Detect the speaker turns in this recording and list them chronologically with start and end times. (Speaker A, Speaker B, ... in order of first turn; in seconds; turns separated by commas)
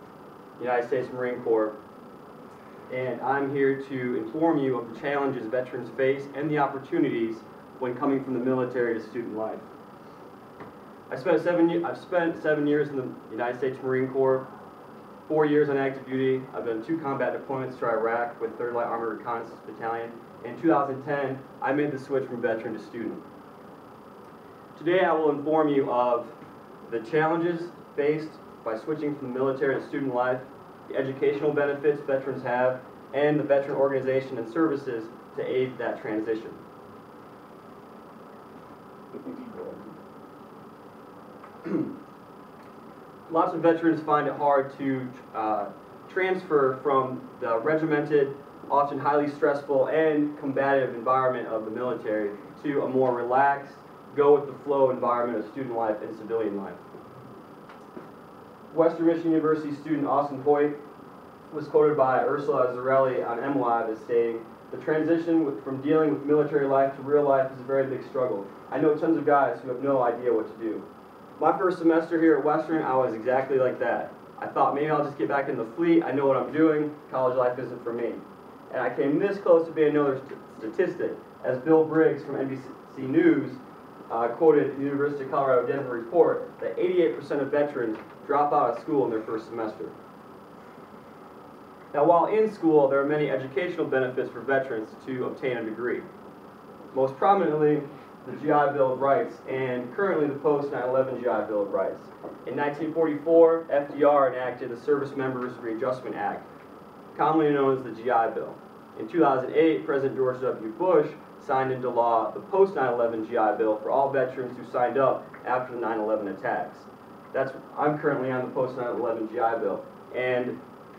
Speaker A: 0.6-1.8, Speaker A: 2.9-9.7, Speaker A: 11.1-14.5, Speaker A: 15.3-23.2, Speaker A: 24.8-26.3, Speaker A: 26.9-36.6, Speaker A: 43.3-56.8, Speaker A: 58.7-60.8, Speaker A: 61.5-70.8, Speaker A: 71.4-89.9, Speaker A: 91.9-96.1, Speaker A: 96.9-106.5, Speaker A: 107.1-120.6